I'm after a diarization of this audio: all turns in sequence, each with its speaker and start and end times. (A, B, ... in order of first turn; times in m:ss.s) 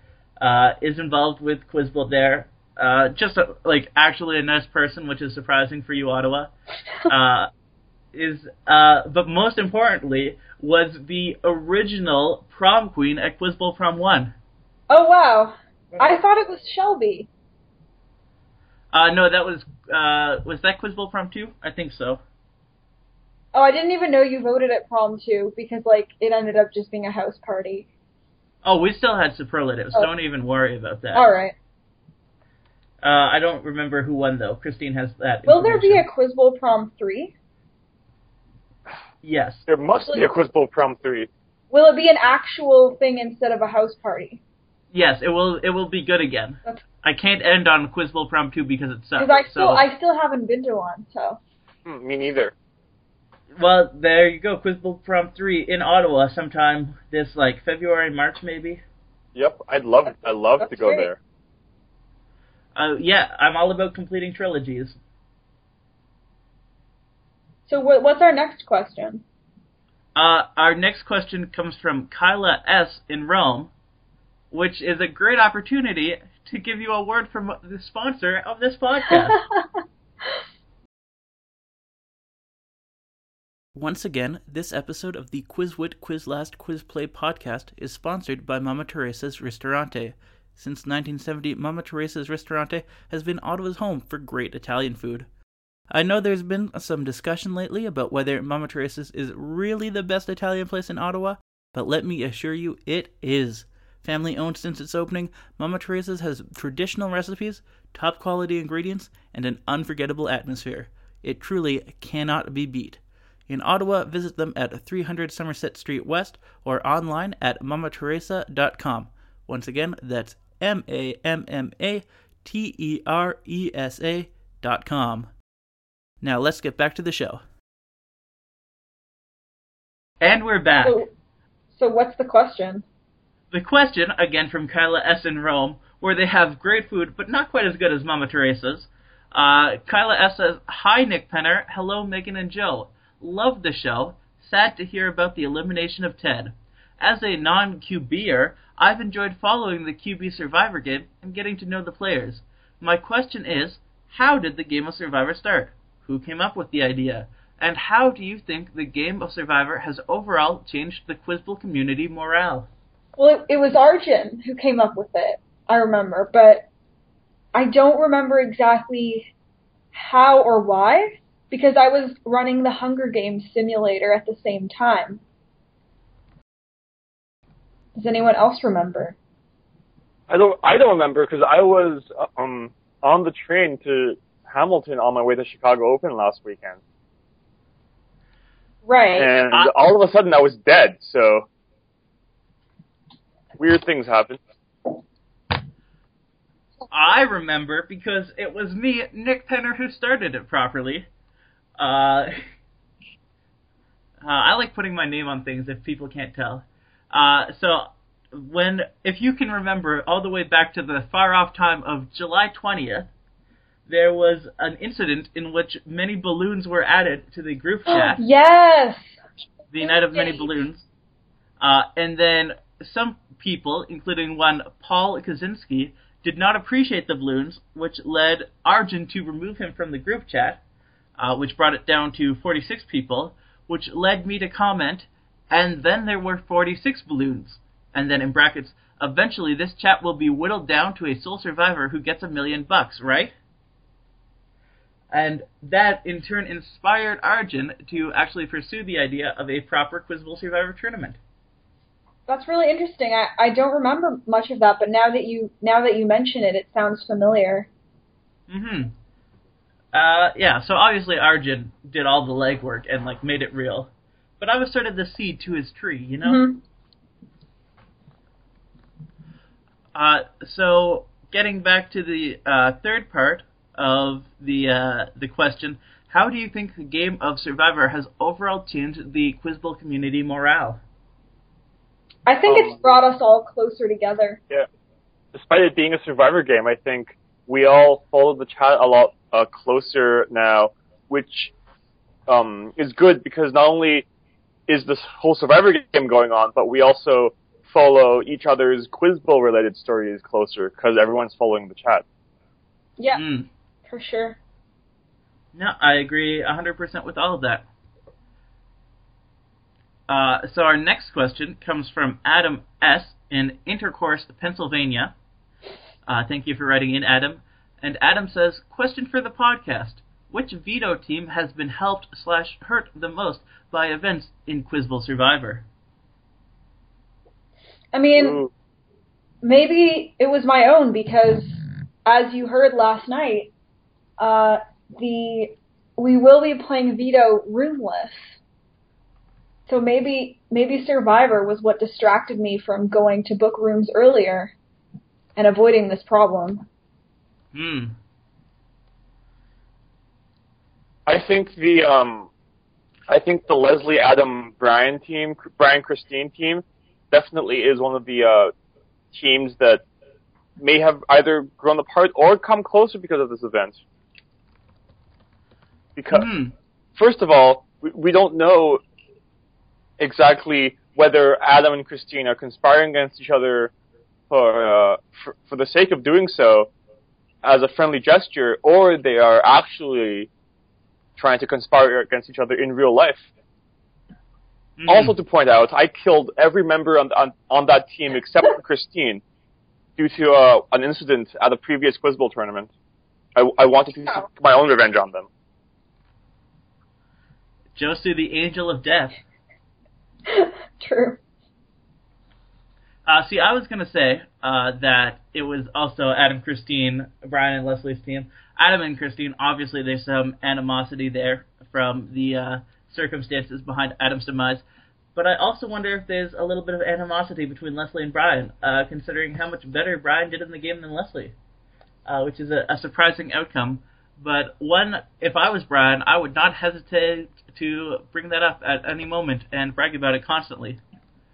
0:00.4-0:06.5 A
0:07.1-0:07.5 A
0:08.1-0:14.3 A
0:14.9-0:17.3 B
0:18.9-0:22.2 A
0:23.5-0:27.9 B
0:28.6-0:31.3 A
0:31.1-0:31.5 B
0:33.0-0:36.0 A
0:35.5-0:37.3 B
0:39.2-0:39.6 A
0:39.7-0:41.3 C
0:41.7-0:44.4 B
0:44.9-0:49.8 A
0:49.2-0:51.4 B
0:51.8-0:52.5 C
0:53.6-0:58.8 A
0:59.3-1:01.2 C
1:00.6-1:01.1 B
1:02.7-1:05.0 A
1:07.7-1:09.2 B
1:10.1-1:13.7 A
1:14.5-1:19.4 A
1:19.1-1:19.6 B
1:23.7-1:35.3 A
1:35.9-2:05.3 A
2:06.2-2:07.4 A
2:10.2-2:11.0 A
2:10.8-2:11.1 B
2:11.7-2:12.8 B
2:13.5-2:42.7 A
2:43.2-2:46.6 B
2:47.5-2:49.3 B
2:49.9-2:55.2 B
2:58.0-2:59.2 B
3:00.3-3:06.8 C
3:08.8-3:09.3 B
3:09.2-3:11.5 C
3:13.6-3:14.4 C
3:16.9-3:21.1 A
3:21.8-3:22.4 A
3:24.2-3:33.1 A
3:33.9-3:38.2 A
3:37.9-3:39.2 B
3:39.7-3:40.8 A
3:39.8-3:40.5 B
3:41.6-3:50.6 A
3:51.2-4:03.3 A
4:05.1-4:11.2 A
4:12.3-4:17.7 B
4:18.5-4:18.9 A
4:19.9-4:26.4 A
4:26.2-4:26.6 B
4:29.9-4:40.8 A
4:42.2-4:44.4 B
4:42.4-4:42.8 C
4:45.3-4:51.5 C
4:52.3-4:54.1 C
4:54.7-5:02.0 C
5:03.1-5:03.5 A
5:03.9-5:04.4 B
5:05.5-5:07.6 A
5:10.1-5:15.1 A
5:16.1-5:25.6 A
5:27.9-5:28.4 B
5:28.2-5:28.5 C
5:29.4-5:33.5 B
5:34.2-5:38.4 B
5:39.7-5:44.5 B
5:45.4-5:46.6 B
5:47.5-5:48.0 A
5:51.1-5:52.3 C
5:53.1-5:58.5 C
5:59.1-5:59.8 C
6:00.6-6:03.8 C
6:06.0-6:06.3 C
6:06.1-6:06.5 A
6:07.0-6:08.8 C
6:10.0-6:13.7 C
6:14.3-6:16.7 C
6:17.4-6:20.3 C
6:21.2-6:23.2 C
6:24.8-6:25.1 A
6:24.9-6:29.2 C
6:30.0-6:32.7 C
6:33.4-6:35.3 C
6:37.7-6:39.2 A
6:40.3-6:41.2 B
6:43.0-7:01.3 A
7:02.0-7:10.8 A